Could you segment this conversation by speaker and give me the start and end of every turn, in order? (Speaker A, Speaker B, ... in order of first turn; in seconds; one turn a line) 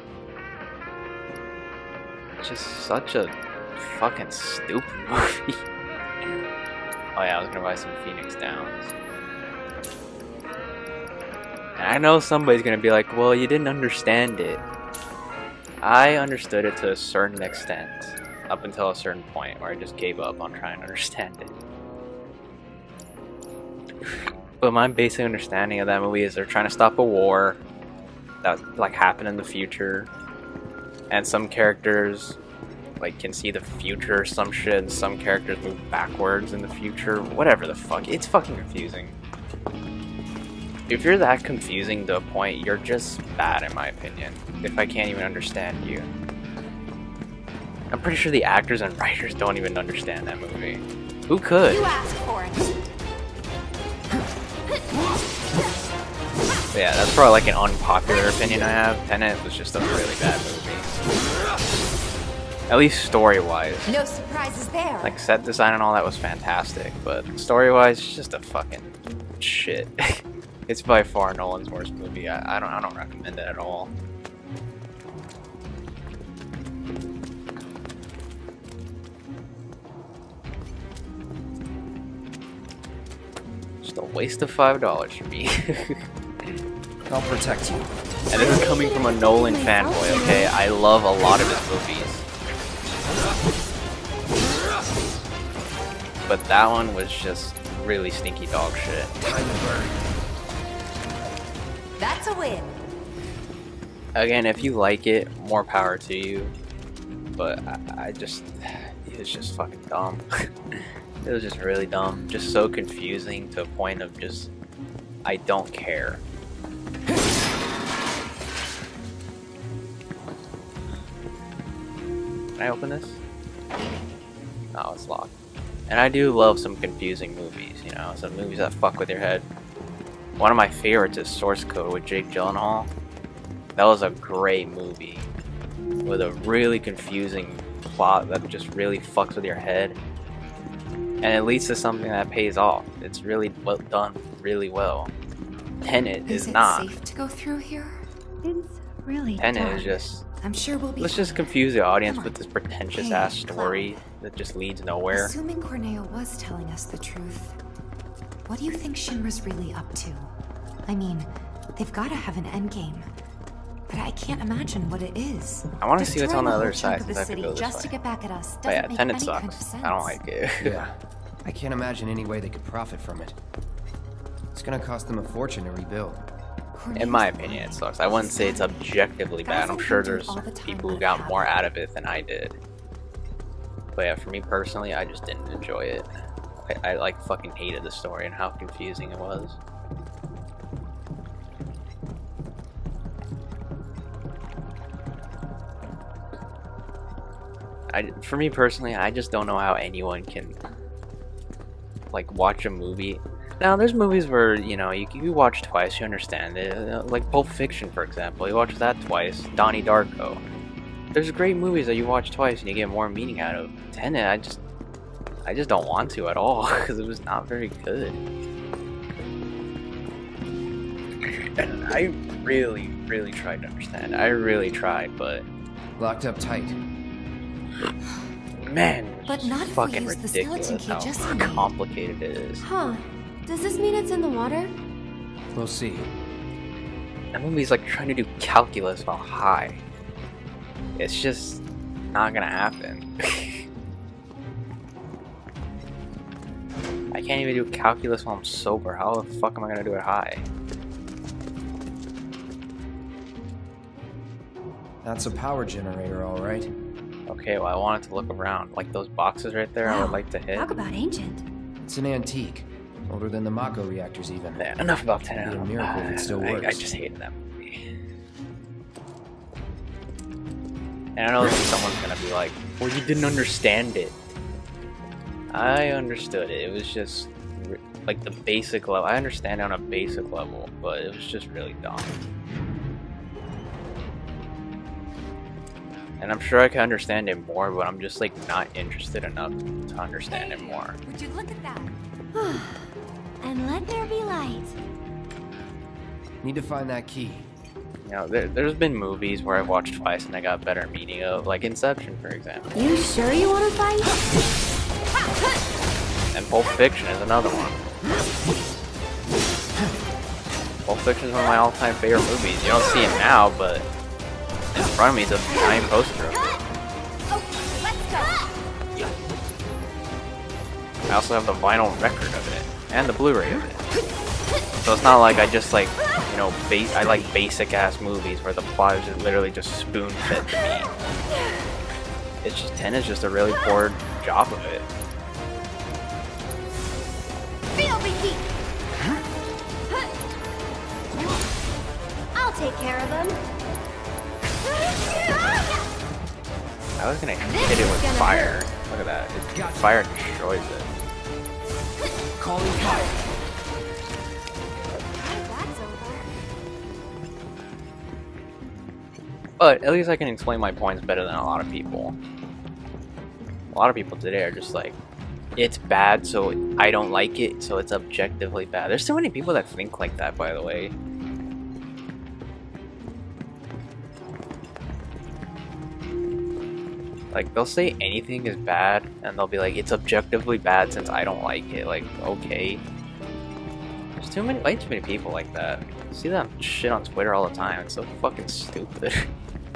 Speaker A: 2.4-5.6
Speaker A: 7.2-8.9
Speaker A: 11.8-14.6
Speaker A: 15.8-21.6
Speaker A: 24.0-27.6
Speaker A: 28.4-30.1
Speaker A: 31.1-32.4
Speaker A: 33.0-39.2
Speaker A: 40.9-46.1
Speaker A: 47.9-52.0
Speaker B: 51.7-52.8
Speaker A: 56.7-60.9
Speaker A: 62.7-64.0
Speaker B: 63.9-65.2
Speaker A: 65.0-73.9
Speaker A: 83.8-86.1
Speaker C: 87.1-87.9
Speaker A: 88.3-92.2
Speaker D: 88.3-90.5
Speaker A: 96.3-99.1
Speaker C: 99.2-100.0
Speaker B: 102.0-102.7
Speaker A: 104.2-106.5
Speaker A: 107.4-114.5
Speaker A: 115.2-116.2
Speaker A: 122.6-123.2
Speaker A: 124.7-125.3
Speaker A: 125.9-129.5
Speaker A: 130.4-132.9
Speaker A: 133.8-135.3
Speaker A: 136.1-140.0
Speaker A: 141.2-145.1
Speaker A: 145.8-146.9
Speaker B: 146.3-148.1
Speaker D: 148.4-149.9
Speaker A: 149.4-150.2
Speaker B: 150.4-152.4
Speaker A: 151.0-155.3
Speaker B: 152.9-154.0
Speaker B: 155.1-157.6
Speaker B: 158.5-160.3
Speaker B: 160.9-163.1
Speaker B: 163.9-170.2
Speaker A: 165.8-167.9
Speaker A: 168.7-170.8
Speaker C: 170.6-173.4
Speaker C: 174.5-176.2
Speaker B: 176.7-181.6
Speaker A: 176.9-182.6
Speaker A: 183.9-189.6
Speaker A: 197.9-200.6
Speaker A: 202.1-210.4
Speaker A: 211.1-214.6
Speaker A: 215.4-218.2
Speaker A: 221.2-225.5
Speaker C: 226.0-226.8
Speaker A: 228.6-232.7
Speaker B: 229.3-231.7
Speaker D: 232.6-234.7
Speaker C: 235.5-236.1
Speaker A: 237.3-239.8
Speaker A: 241.0-243.7
Speaker A: 247.1-250.5
Speaker C: 255.0-256.7
Speaker A: 257.3-260.7
Speaker D: 259.8-261.4
Speaker C: 261.9-264.6
Speaker A: 264.6-267.9
Speaker C: 265.4-266.9
Speaker A: 271.2-274.2
Speaker A: 275.5-282.1
Speaker A: 286.2-291.0
Speaker B: 290.3-291.9
Speaker D: 292.3-294.8
Speaker C: 296.4-297.5
Speaker A: 298.1-302.7
Speaker D: 302.7-304.2
Speaker A: 306.3-307.8
Speaker A: 310.9-313.9
Speaker A: 314.7-316.5
Speaker D: 317.7-318.4
Speaker A: 321.1-323.8
Speaker A: 324.9-330.9
Speaker A: 332.4-334.8
Speaker D: 337.7-338.5
Speaker D: 342.3-343.4
Speaker D: 345.3-345.6
Speaker A: 347.0-350.9
Speaker D: 347.4-348.6
Speaker C: 349.5-350.0
Speaker C: 352.4-353.2
Speaker D: 355.2-356.3
Speaker A: 359.6-362.2
Speaker A: 363.7-365.0
Speaker A: 365.6-370.9
Speaker A: 377.3-382.8
Speaker A: 384.2-389.3